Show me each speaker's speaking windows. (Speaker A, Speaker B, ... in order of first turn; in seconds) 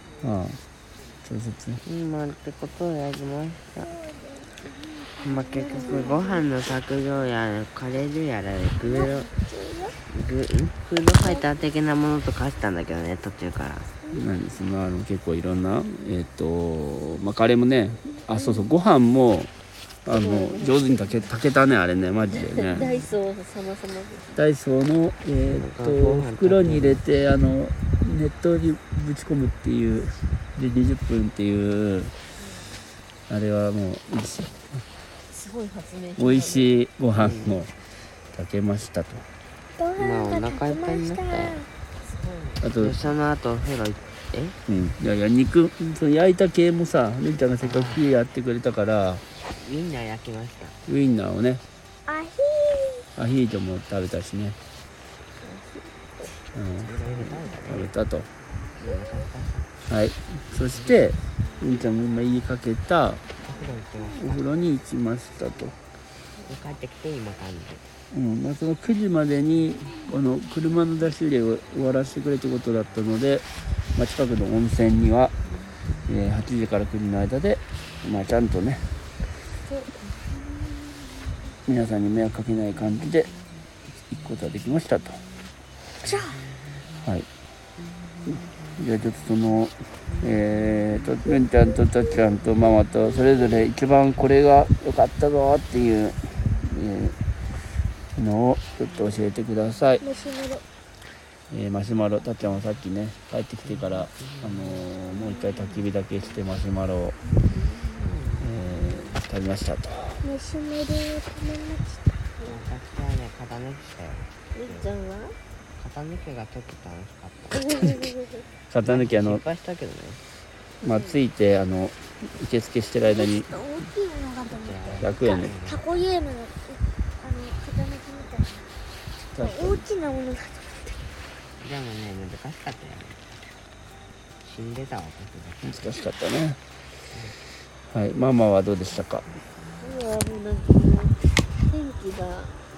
Speaker A: 0.2-0.6, 1.2-1.8, 14.1-19.5, 20.1-22.9, 24.3-32.1, 33.3-34.8, 36.2-37.7, 38.3-39.2, 42.6-43.0, 44.7-49.2, 50.9-51.6, 53.2-54.6, 56.5-58.3, 59.9-63.2, 64.2-65.8, 68.1-75.3, 76.1-78.9, 81.7-83.3, 84.1-85.2, 88.3-97.2, 98.2-100.0, 101.5-107.2, 108.4-110.2, 118.7-119.4, 120.8-123.6, 125.0-125.5, 129.3-129.8, 135.6-136.6, 137.9-139.3
Speaker B: 1.8-3.9, 5.2-9.3, 10.1-13.9, 25.5-27.1, 37.2-37.6, 40.0-41.6, 42.7-44.6, 47.6-48.0, 49.5-50.8, 56.8-57.9, 58.8-59.7, 63.4-64.5, 66.4-67.8, 103.7-104.9, 107.5-108.5, 112.4-114.9, 115.8-117.7, 118.8-120.2, 124.5-125.9, 131.6-133.3, 134.4-135.8, 137.1-137.4
Speaker C: 3.8-6.5, 8.8-10.0, 39.8-41.7, 52.1-53.1, 86.0-86.4, 100.0-100.6, 110.2-112.3, 123.0-128.7, 129.3-131.0
Speaker D: 20.1-20.9, 22.3-24.3, 35.3-36.8, 42.1-42.6, 55.4-56.3, 114.5-115.4, 117.8-118.1, 120.8-121.2, 139.8-142.6